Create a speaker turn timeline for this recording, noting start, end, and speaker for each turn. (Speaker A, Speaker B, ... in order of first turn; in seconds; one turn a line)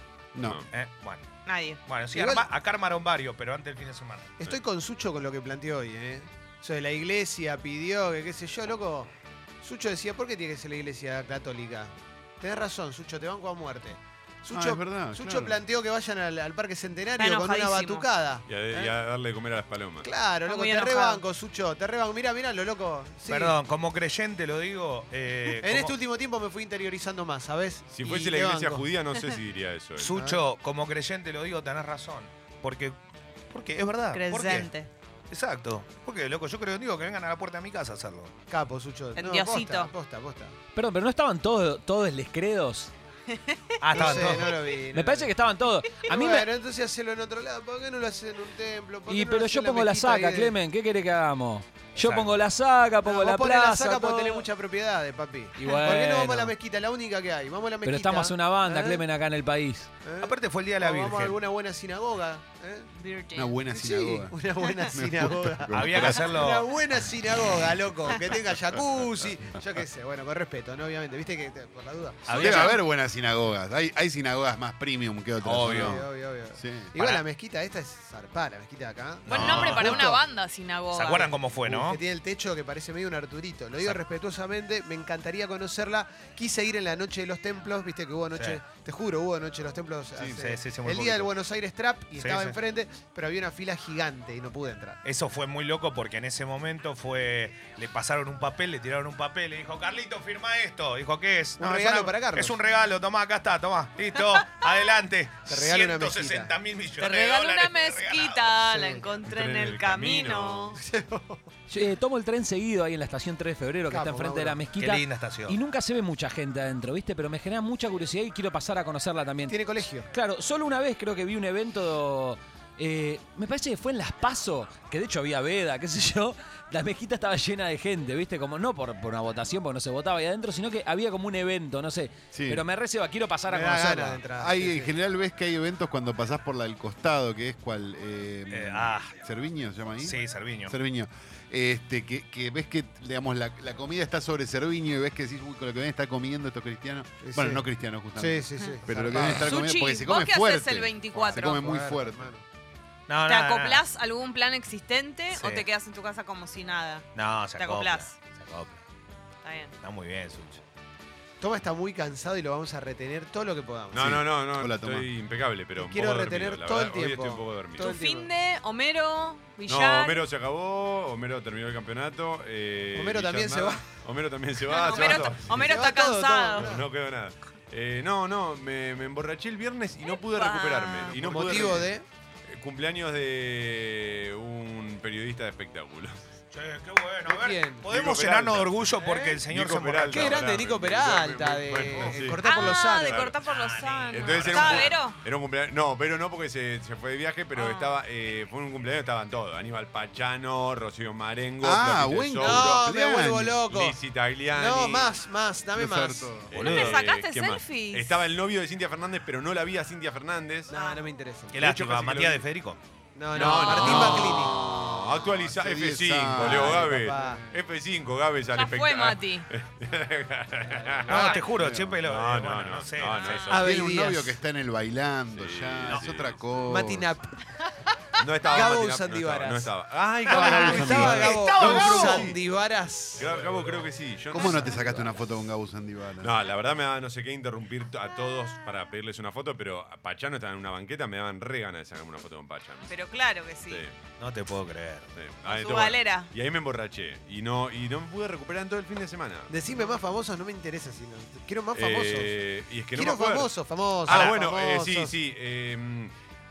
Speaker A: 0.3-0.6
Speaker B: 0.7-1.2
Speaker C: 1.4-1.8
Speaker B: 1.8-4.3
Speaker D: 2.1-2.5
Speaker D: 4.4-18.9
Speaker A: 14.5-15.6
Speaker C: 17.2-18.1
Speaker E: 18.5-20.1
Speaker D: 20.0-23.6
Speaker C: 20.4-21.2
Speaker B: 23.3-25.9
Speaker D: 25.6-28.9
Speaker E: 27.9-30.2
Speaker B: 30.0-33.0
Speaker D: 30.1-30.4
Speaker B: 33.5-34.7
Speaker C: 34.1-34.9
Speaker B: 35.3-38.3
Speaker D: 38.5-40.6
Speaker C: 39.1-39.9
Speaker F: 40.7-42.9
Speaker C: 43.3-43.8
Speaker B: 43.8-44.6
Speaker D: 43.9-45.3
Speaker F: 44.9-46.5
Speaker D: 46.0-50.5
Speaker F: 49.1-54.5
Speaker B: 51.9-52.4
Speaker D: 53.0-59.0
Speaker F: 55.6-56.5
Speaker F: 57.8-59.9
Speaker D: 60.0-62.9
Speaker B: 60.2-61.4
Speaker C: 62.9-63.6
Speaker A: 63.3-64.4
Speaker D: 63.7-72.7
Speaker A: 64.9-66.3
Speaker B: 65.7-66.7
Speaker B: 72.2-72.8
Speaker A: 72.3-76.9
Speaker B: 75.4-76.0
Speaker D: 75.6-80.2
Speaker B: 77.0-77.2
Speaker B: 79.2-80.1
Speaker C: 79.3-81.3
Speaker B: 80.9-82.0
Speaker D: 81.6-95.0
Speaker B: 88.3-88.6
Speaker B: 90.3-91.3
Speaker B: 92.2-92.6
Speaker B: 95.0-108.6
Speaker D: 101.6-102.6
Speaker D: 105.5-106.5
Speaker C: 107.0-110.8
Speaker D: 108.6-109.1
Speaker E: 109.2-110.8
Speaker D: 110.8-111.4
Speaker F: 111.7-119.6
Speaker D: 113.9-114.7
Speaker B: 114.8-115.6
Speaker D: 119.5-120.1
Speaker F: 120.1-134.2
Speaker A: 132.3-132.6
Speaker D: 133.5-134.9
Speaker A: 134.3-152.3
Speaker B: 138.5-139.1
Speaker B: 140.0-140.7
Speaker D: 147.2-149.5
Speaker C: 149.3-151.6
Speaker D: 151.1-152.4
Speaker B: 153.1-153.8
Speaker C: 153.2-158.1
Speaker B: 155.3-155.7
Speaker B: 157.1-158.8
Speaker C: 159.4-159.7
Speaker B: 159.8-160.6
Speaker D: 161.4-164.2
Speaker E: 163.9-167.9
Speaker A: 163.9-165.1
Speaker D: 165.8-168.3
Speaker C: 167.8-170.2
Speaker E: 169.7-175.8
Speaker D: 172.9-173.8
Speaker C: 174.7-176.8
Speaker D: 174.9-176.8
Speaker E: 176.6-181.9
Speaker C: 180.0-181.2
Speaker D: 181.1-182.0
Speaker E: 182.5-186.2
Speaker B: 186.5-190.5
Speaker D: 187.2-187.9
Speaker E: 187.8-193.3
Speaker D: 189.0-189.4
Speaker D: 190.1-193.3
Speaker C: 192.4-195.2
Speaker B: 193.4-194.9
Speaker E: 194.1-202.9
Speaker C: 197.5-198.0
Speaker A: 201.6-203.6
Speaker D: 202.4-203.9
Speaker E: 203.7-205.2
Speaker D: 204.5-206.4
Speaker A: 205.7-206.6
Speaker E: 206.5-210.7
Speaker C: 206.5-208.1
Speaker D: 210.7-211.7
Speaker C: 210.7-211.0
Speaker B: 211.5-212.8
Speaker E: 211.6-212.4
Speaker D: 213.1-214.6
Speaker E: 213.3-221.4
Speaker C: 213.3-214.1
Speaker A: 213.8-217.4
Speaker D: 216.3-217.4
Speaker C: 218.5-219.4
Speaker D: 221.1-221.3
Speaker B: 221.1-223.5
Speaker A: 221.5-222.0
Speaker E: 222.0-223.8
Speaker C: 223.1-223.4
Speaker D: 223.5-224.4
Speaker A: 223.5-227.1
Speaker E: 225.3-226.4
Speaker D: 226.7-227.3
Speaker E: 228.2-232.4
Speaker D: 228.4-229.7
Speaker D: 230.2-233.4
Speaker B: 230.3-232.2
Speaker A: 230.4-231.2
Speaker E: 233.2-235.1
Speaker A: 234.3-236.3
Speaker E: 236.2-242.9
Speaker C: 242.9-243.8
Speaker B: 244.2-245.2
Speaker E: 245.2-249.5
Speaker C: 245.4-246.3
Speaker D: 249.5-252.3
Speaker E: 251.7-256.1
Speaker D: 252.9-255.1
Speaker B: 254.1-254.3